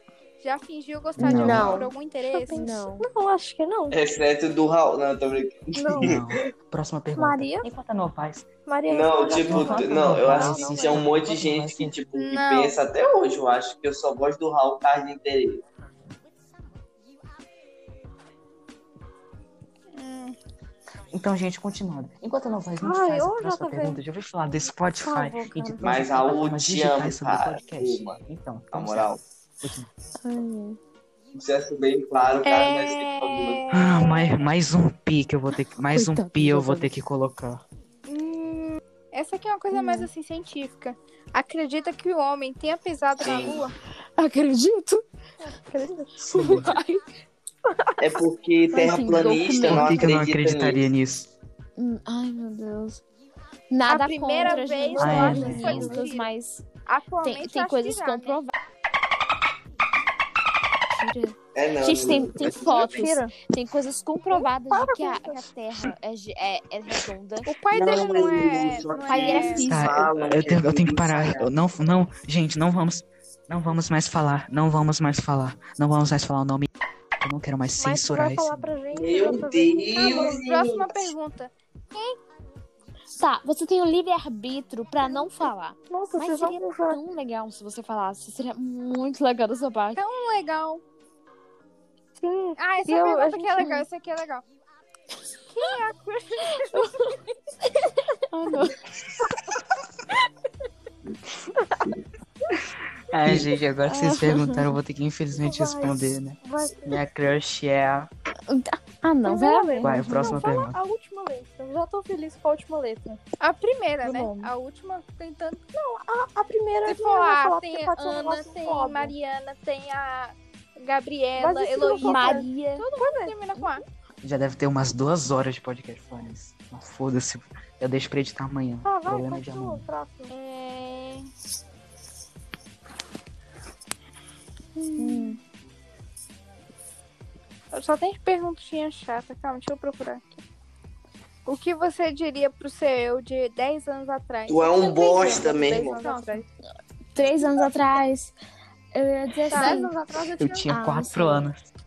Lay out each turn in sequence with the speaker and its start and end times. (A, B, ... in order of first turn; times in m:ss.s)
0:00.4-0:02.6 A
0:01.2-0:01.8 B
0:01.2-0:01.9 C
0:01.7-0:04.0 D
0:02.5-0:03.1 C
0:03.9-0:06.4 E
0:05.7-0:06.2 D
0:06.0-0:08.5 B
0:07.2-0:07.7 D
0:08.7-0:11.0 D
0:08.9-0:15.6 E
0:09.4-0:12.0 B
0:09.9-0:11.0 C
0:12.2-0:12.8 A
0:20.0-0:20.4 A
0:21.1-0:29.9 B
0:22.8-0:24.0 D
0:25.0-0:25.8 D
0:25.8-0:28.2 E
0:28.7-0:29.2 E
0:30.2-0:30.8 C
0:31.3-0:33.6 E
0:32.4-0:34.4 A
0:33.7-0:37.6 B
0:35.9-0:36.9 C
0:38.1-0:43.7 A
0:39.7-0:40.1 C
0:43.2-0:43.7 E
0:44.2-0:45.0 C
0:45.4-0:46.8 D
0:46.3-0:47.0 C
0:46.3-0:46.7 B
0:48.0-0:50.8 E
0:48.7-0:50.1 C
0:49.7-0:51.3 B
0:51.8-0:53.0 C
0:53.7-0:56.6 C
0:53.8-0:56.3 A
0:55.0-0:56.0 B
0:56.8-0:58.4 A
0:57.2-0:58.5 C
1:00.9-1:07.6 C
1:01.6-1:03.1 E
1:02.6-1:03.3 D
1:04.3-1:05.4 A
1:07.5-1:09.7 A
1:07.7-1:11.5 E
1:09.0-1:10.1 C
1:09.7-1:16.7 B
1:17.2-1:18.8 B
1:17.8-1:20.4 D
1:18.9-1:21.1 E
1:20.0-1:22.2 A
1:23.2-1:30.0 C
1:25.9-1:27.0 D
1:30.0-1:30.8 A
1:32.2-1:33.8 D
1:32.6-1:34.4 A
1:35.6-1:36.8 A
1:36.6-1:37.1 C
1:38.1-1:38.8 C
1:43.1-1:48.1 B
1:43.9-1:44.8 C
1:45.4-1:47.0 D
1:48.5-1:50.4 C
1:49.2-1:53.2 D
1:49.8-1:50.8 B
1:53.4-1:55.6 A
1:54.0-1:54.4 D
1:54.1-1:54.4 C
1:55.7-1:59.1 D
1:56.9-2:03.8 A
2:01.4-2:03.4 D
2:02.0-2:02.9 C
2:04.2-2:09.8 B
2:08.8-2:10.3 D
2:10.3-2:11.3 A
2:14.8-2:15.4 D
2:15.0-2:15.4 C
2:17.7-2:20.4 A
2:21.5-2:26.5 A
2:24.5-2:26.0 E
2:25.8-2:26.4 D
2:27.2-2:28.3 C
2:28.9-2:29.9 C
2:29.5-2:30.7 D
2:29.5-2:29.8 A
2:30.4-2:31.6 B
2:30.7-2:31.5 C